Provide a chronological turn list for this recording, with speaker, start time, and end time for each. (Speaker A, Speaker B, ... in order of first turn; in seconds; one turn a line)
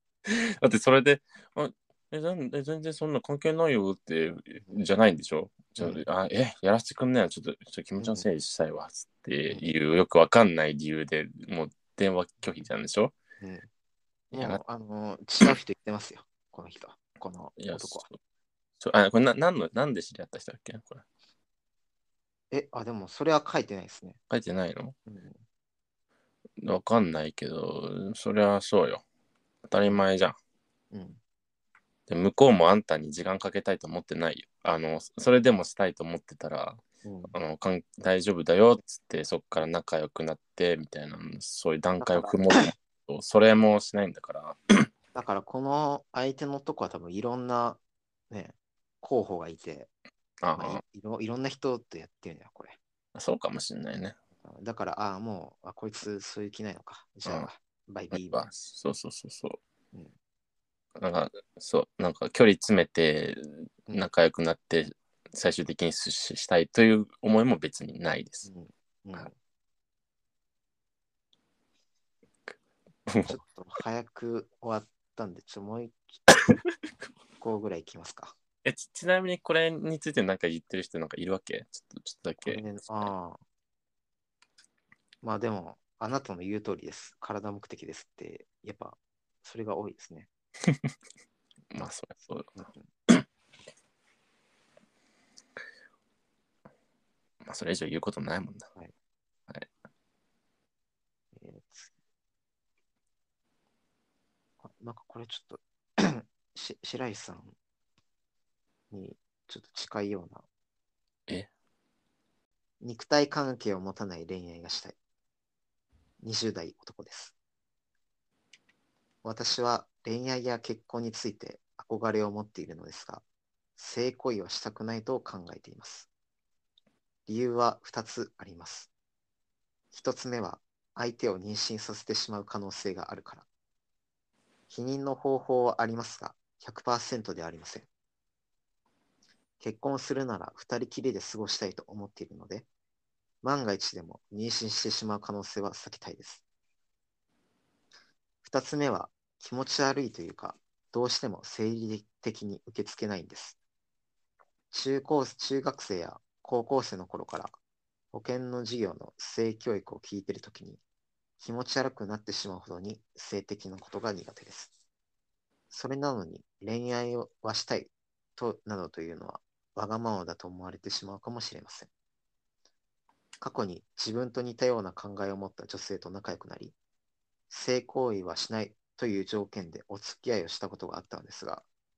Speaker A: 0.3-13.1
Speaker B: 5.8-6.0
Speaker B: 8.0-8.3
Speaker B: 13.4-13.7
Speaker A: 14.3-14.6
Speaker B: 14.3-18.1
Speaker A: 17.6-18.2
Speaker A: 18.8-21.0
Speaker B: 22.5-24.2
Speaker A: 24.3-24.9
Speaker B: 25.1-25.4
Speaker A: 26.6-29.0
Speaker A: 29.7-30.4
Speaker B: 30.9-31.2
Speaker A: 32.1-36.8
Speaker B: 37.0-37.4
Speaker A: 37.3-44.9
Speaker B: 42.0-42.7
Speaker B: 45.1-49.9
Speaker A: 50.4-50.8
Speaker B: 50.6-52.8
Speaker A: 53.1-54.2
Speaker B: 54.4-58.5
Speaker A: 58.1-59.6
Speaker A: 61.0-68.5
Speaker B: 68.4-69.4
Speaker A: 73.1-73.4
Speaker B: 73.2-76.2
Speaker B: 77.4-78.3
Speaker A: 78.7-83.1
Speaker B: 82.4-83.4
Speaker B: 85.2-90.3
Speaker A: 91.7-92.5
Speaker B: 92.6-92.9
Speaker A: 97.4-98.7
Speaker B: 101.3-101.9
Speaker B: 104.6-107.6
Speaker B: 108.9-110.5
Speaker B: 112.8-115.0
Speaker B: 116.2-117.3
Speaker B: 119.2-123.2
Speaker B: 123.8-126.1
Speaker B: 127.3-128.9
Speaker B: 129.9-133.5
Speaker B: 134.7-137.9
Speaker B: 139.6-142.7
Speaker B: 143.4-146.4
Speaker B: 148.4-153.6
Speaker B: 154.7-157.6
Speaker B: 158.1-160.8
Speaker B: 161.4-164.7
Speaker B: 165.7-171.9
Speaker B: 173.4-176.8
Speaker B: 177.5-181.7